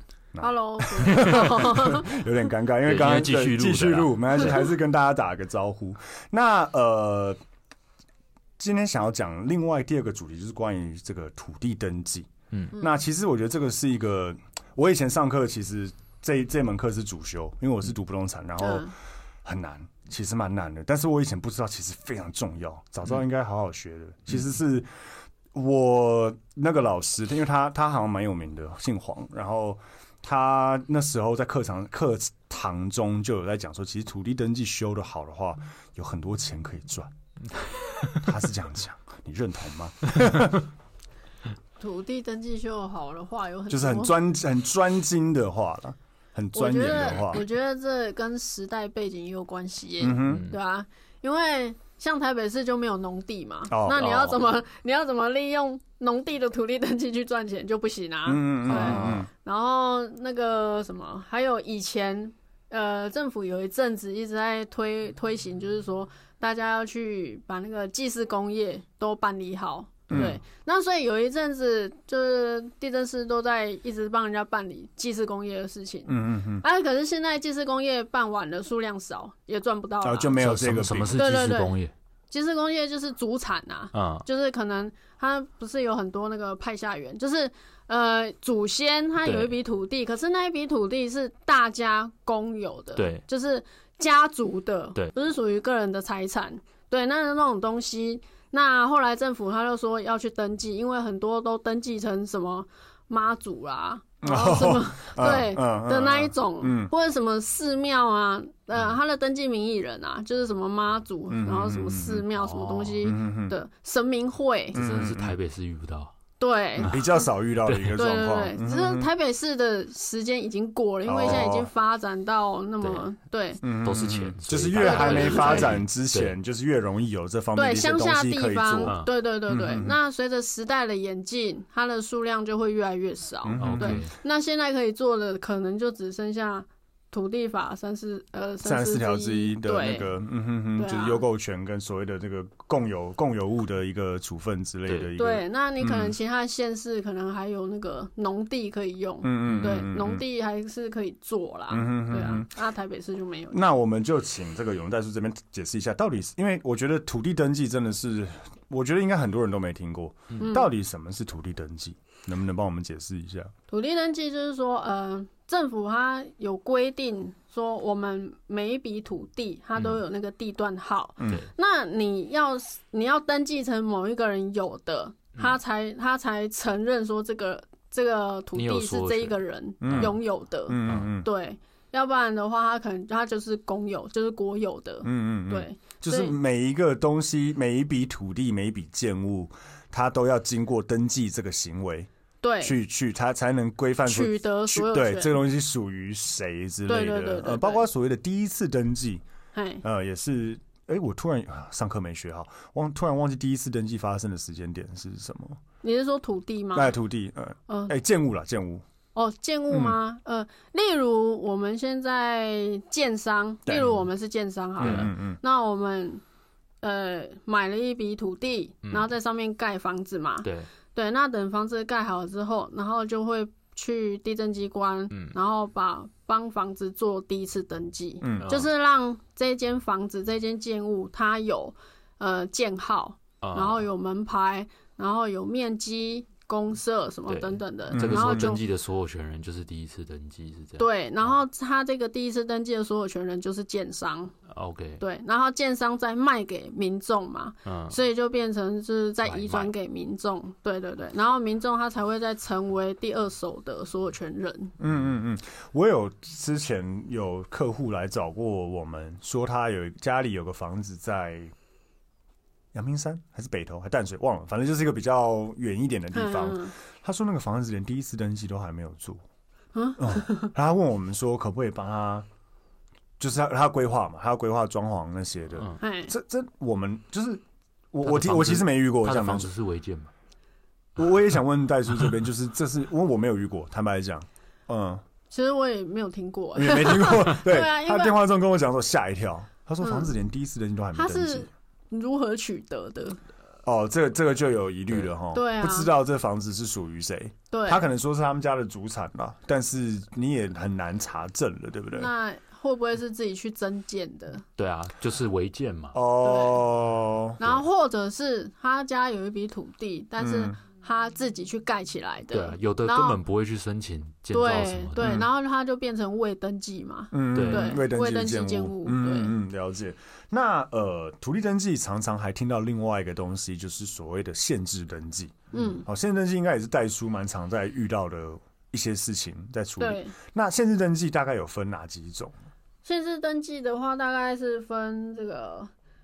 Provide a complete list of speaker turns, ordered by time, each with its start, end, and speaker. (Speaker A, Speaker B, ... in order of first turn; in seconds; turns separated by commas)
Speaker A: 0.3-7.4, Speaker B: 0.4-2.2, Speaker C: 2.8-4.3, Speaker A: 8.6-18.9, Speaker B: 18.6-18.9, Speaker A: 19.4-24.9, Speaker A: 25.5-37.1, Speaker C: 37.9-38.3, Speaker A: 38.1-40.7, Speaker B: 41.8-44.2, Speaker A: 43.7-47.4, Speaker B: 46.5-80.4, Speaker A: 50.0-50.5, Speaker C: 50.3-50.5, Speaker A: 53.7-54.4, Speaker A: 58.2-59.3, Speaker C: 58.6-59.3, Speaker A: 70.1-70.4, Speaker A: 76.1-76.6, Speaker A: 80.0-81.2, Speaker C: 80.4-81.9, Speaker B: 81.1-81.8, Speaker B: 82.3-114.8, Speaker C: 83.9-84.2, Speaker C: 89.2-89.5, Speaker C: 93.0-93.2, Speaker A: 104.2-106.9, Speaker A: 111.3-112.2, Speaker C: 112.3-113.0, Speaker A: 113.0-113.5, Speaker A: 114.7-115.3, Speaker C: 114.7-116.1, Speaker B: 116.4-117.0, Speaker A: 116.9-119.1, Speaker C: 117.7-118.0, Speaker B: 118.0-123.6, Speaker A: 121.0-121.7, Speaker C: 122.8-123.1, Speaker A: 123.6-130.0, Speaker C: 123.8-126.3, Speaker B: 124.8-125.8, Speaker B: 127.5-140.1, Speaker C: 128.8-129.1, Speaker A: 133.4-134.0, Speaker C: 133.6-134.1, Speaker A: 138.6-146.1, Speaker B: 140.7-141.2, Speaker B: 145.2-153.6, Speaker A: 149.2-150.2, Speaker A: 151.7-152.5, Speaker A: 153.5-163.5, Speaker B: 160.4-160.7, Speaker B: 163.7-186.4, Speaker A: 171.2-171.4, Speaker C: 178.5-180.1, Speaker A: 179.8-181.3, Speaker C: 180.8-181.1, Speaker A: 185.0-192.1, Speaker B: 192.4-192.8, Speaker A: 192.6-199.2, Speaker B: 194.1-195.4, Speaker B: 196.9-197.8, Speaker B: 199.5-199.8, Speaker A: 199.8-205.6, Speaker B: 205.8-206.9, Speaker A: 206.7-208.8, Speaker B: 207.7-207.9, Speaker B: 209.1-216.2, Speaker A: 209.7-210.0, Speaker A: 213.7-214.0, Speaker A: 214.8-215.4, Speaker C: 214.8-215.1, Speaker B: 216.8-238.6, Speaker C: 220.4-220.7, Speaker A: 228.2-228.5, Speaker C: 228.4-228.7, Speaker C: 233.4-233.8, Speaker C: 237.3-241.4, Speaker A: 237.9-238.5, Speaker B: 240.8-244.3, Speaker C: 244.5-245.0, Speaker B: 245.0-254.7, Speaker C: 247.6-247.9, Speaker C: 249.2-249.7, Speaker A: 254.8-261.5, Speaker A: 262.7-269.2, Speaker B: 266.1-266.7, Speaker B: 269.7-270.5, Speaker A: 270.0-272.3, Speaker A: 273.2-279.5, Speaker B: 275.8-276.1, Speaker C: 278.0-280.1, Speaker A: 281.0-285.0, Speaker B: 285.3-288.2, Speaker A: 286.5-291.5, Speaker B: 289.8-290.1, Speaker B: 290.9-293.2, Speaker A: 293.6-302.1, Speaker B: 295.3-295.9, Speaker B: 297.5-297.9, Speaker B: 301.9-304.4, Speaker C: 304.6-306.0, Speaker A: 305.9-307.4, Speaker B: 306.2-306.6, Speaker B: 307.4-313.2, Speaker A: 310.2-310.6, Speaker C: 312.2-315.2, Speaker B: 314.3-319.3, Speaker A: 315.0-315.3, Speaker A: 317.1-332.3, Speaker C: 317.3-317.8, Speaker B: 325.5-325.8, Speaker B: 329.8-330.1, Speaker B: 332.8-335.7